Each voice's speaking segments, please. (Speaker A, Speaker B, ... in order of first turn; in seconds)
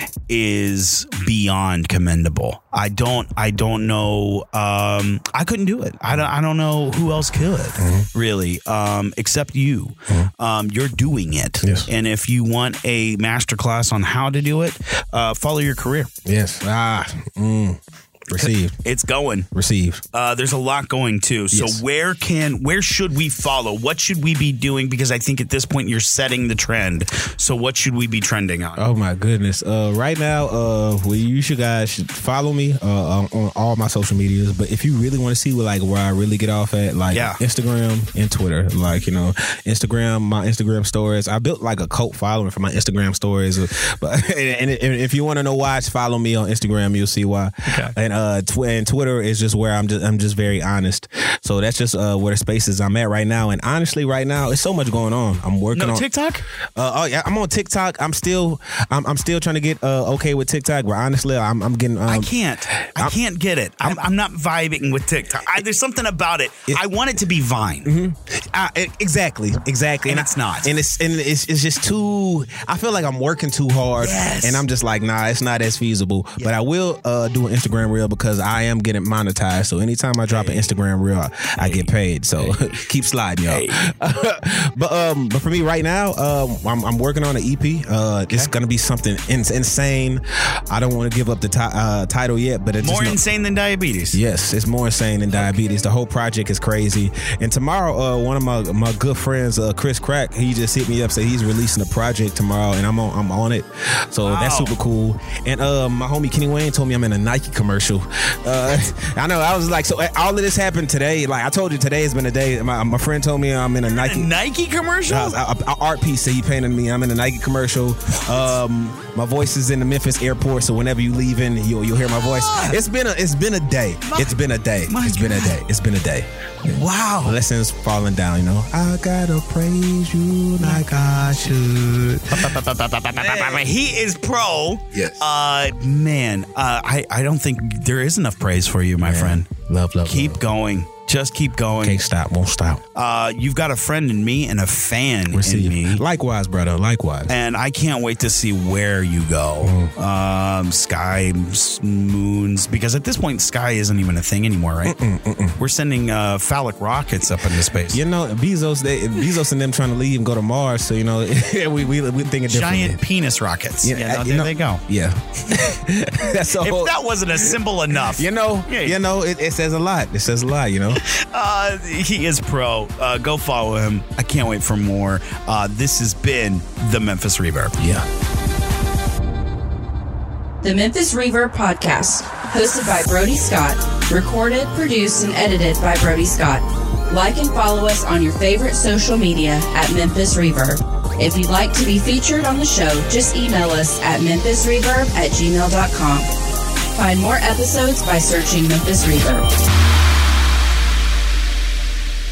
Speaker A: 0.3-16.1, 18.4-19.5, 20.1-28.8, 37.1-37.4, 47.7-47.9, 55.7-56.4, 62.1-67.9, 70.1-70.7, 74.0-74.6, 80.3-80.6, 81.6-82.7, 83.5-83.9, 92.8-94.2, 104.2-104.7, 113.9-115.4, 122.2-122.8, 124.1-125.6, 126.7-127.4, 132.3-139.5, 140.1-142.0, 142.9-146.0, 147.3-155.0, 155.6-158.0, 162.5-164.8, 166.2-169.0, 171.1-177.8
Speaker B: 7.8-8.1, 11.6-11.9, 16.3-18.8, 19.5-20.0, 21.5-21.8, 28.8-56.1, 56.8-63.2, 67.8-93.2, 94.1-114.3, 115.1-132.6, 133.1-133.7, 134.9-135.2, 139.0-140.4, 141.8-142.8, 145.3-147.3, 149.6-149.9, 154.9-155.6, 157.9-163.0, 163.8-167.6, 168.1-171.0, 177.8-178.1
Speaker C: 180.6-196.3, 196.9-199.5